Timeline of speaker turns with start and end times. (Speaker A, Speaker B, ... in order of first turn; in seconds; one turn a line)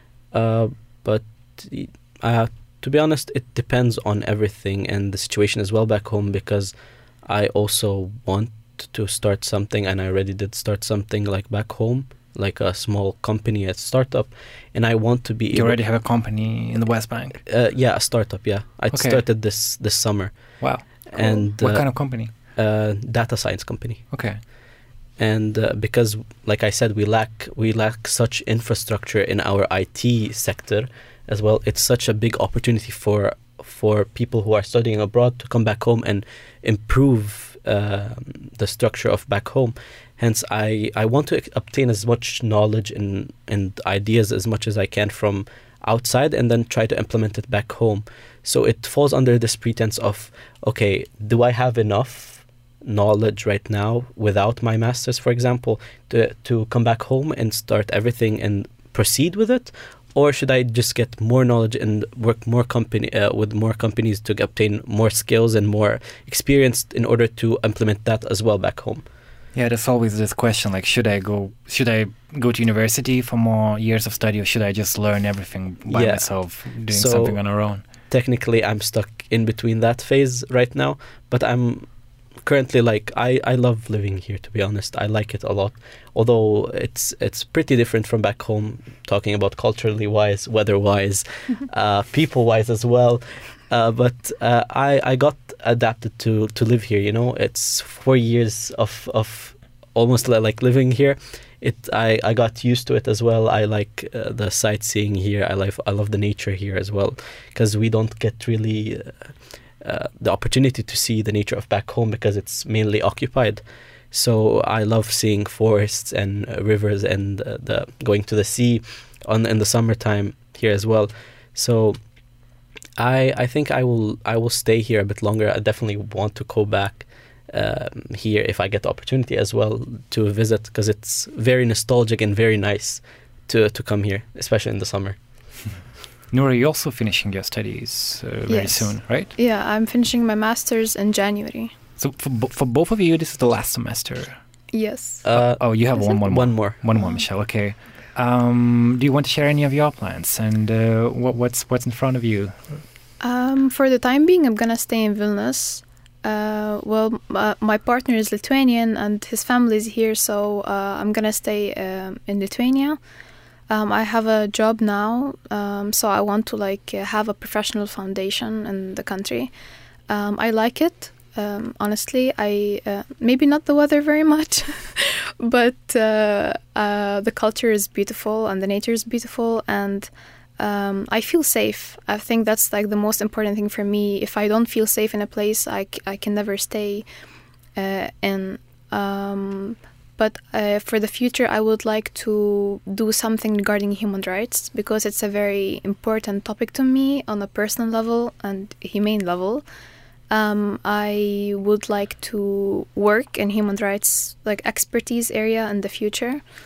Speaker A: 0.3-15.8
Speaker B: 15.5-17.4
Speaker A: 17.4-24.0
Speaker B: 18.9-19.2
Speaker B: 20.6-22.3
Speaker B: 24.1-24.4
Speaker A: 25.2-69.0
Speaker B: 69.5-77.8
Speaker A: 75.9-77.5
Speaker A: 78.1-81.9
Speaker A: 82.4-122.0
Speaker A: 123.0-135.2
Speaker B: 136.3-139.3
Speaker C: 138.5-141.7
Speaker B: 142.0-144.4
Speaker C: 144.7-145.3
Speaker A: 145.2-146.8
Speaker B: 145.3-152.8
Speaker C: 153.2-163.0
Speaker C: 163.7-169.5
Speaker C: 170.1-187.0
Speaker C: 187.8-199.6
Speaker C: 200.3-206.4